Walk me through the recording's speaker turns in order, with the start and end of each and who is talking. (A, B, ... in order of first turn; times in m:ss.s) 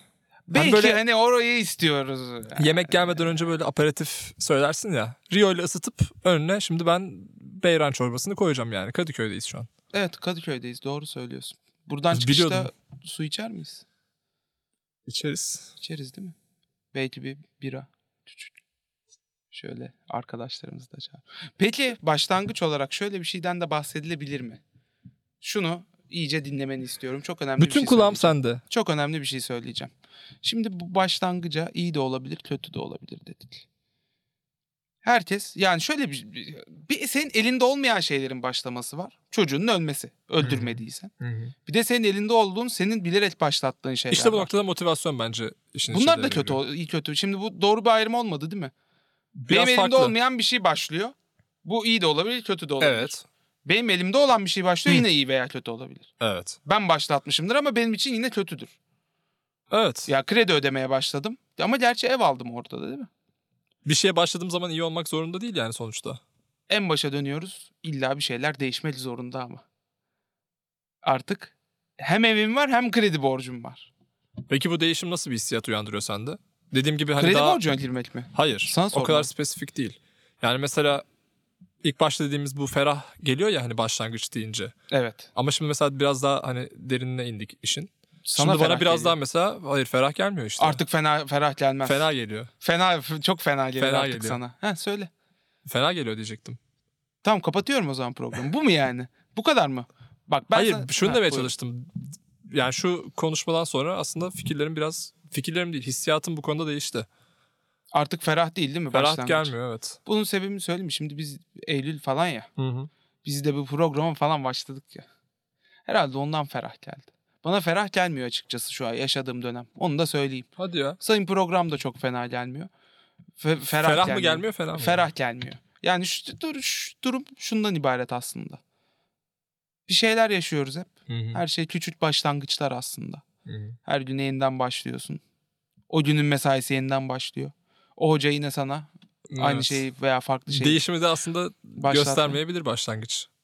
0:00.5-0:03.3 A
0:00.5-0:01.0 B
0:02.6-0:09.7 B
0:09.9-0:13.8 A
0:12.1-0:12.7 B
0:15.1-0:15.7 B
0:15.8-0:16.4 A
0:16.9-0:18.5 A
0:19.5-0:24.6 A
0:25.4-0:29.9 A
0:27.6-0:28.6 B
0:30.4-0:33.6 A
0:35.0-0:41.1 A
0:40.4-0:41.5 B
0:41.7-0:44.5 A
0:44.1-0:46.6 B
0:45.9-0:48.7 A
0:49.4-0:50.1 B
0:49.5-0:56.1 A
0:52.8-0:53.2 B
0:56.2-0:56.6 B
0:56.6-0:58.7 A
0:59.7-1:00.1 B
1:00.1-1:03.1 A
1:03.8-1:06.2 B
1:06.7-1:09.6 A
1:11.0-1:13.9 A
1:14.5-1:17.6 B
1:17.2-1:19.3 A
1:18.3-1:21.0 B
1:21.8-1:24.7 B
1:24.9-1:25.3 A
1:25.4-1:30.8 B
1:28.2-1:29.2 A
1:30.6-1:32.1 A
1:31.8-1:32.5 B
1:32.6-1:35.1 A
1:33.8-1:34.4 B
1:35.6-1:36.6 B
1:37.2-1:41.5 A
1:40.5-1:47.1 B
1:47.9-1:49.5 A
1:48.9-1:50.0 B
1:50.0-1:52.5 A
1:52.6-1:52.9 B
1:53.2-1:55.1 A
1:55.9-2:02.7 A
2:00.6-2:01.0 B
2:03.4-2:08.6 A
2:03.8-2:05.1 B
2:09.9-2:13.2 A
2:11.1-2:11.4 B
2:13.5-2:13.8 B
2:13.9-2:15.2 A
2:15.9-2:20.8 A
2:19.3-2:19.8 B
2:20.5-2:23.3 B
2:21.8-2:22.4 A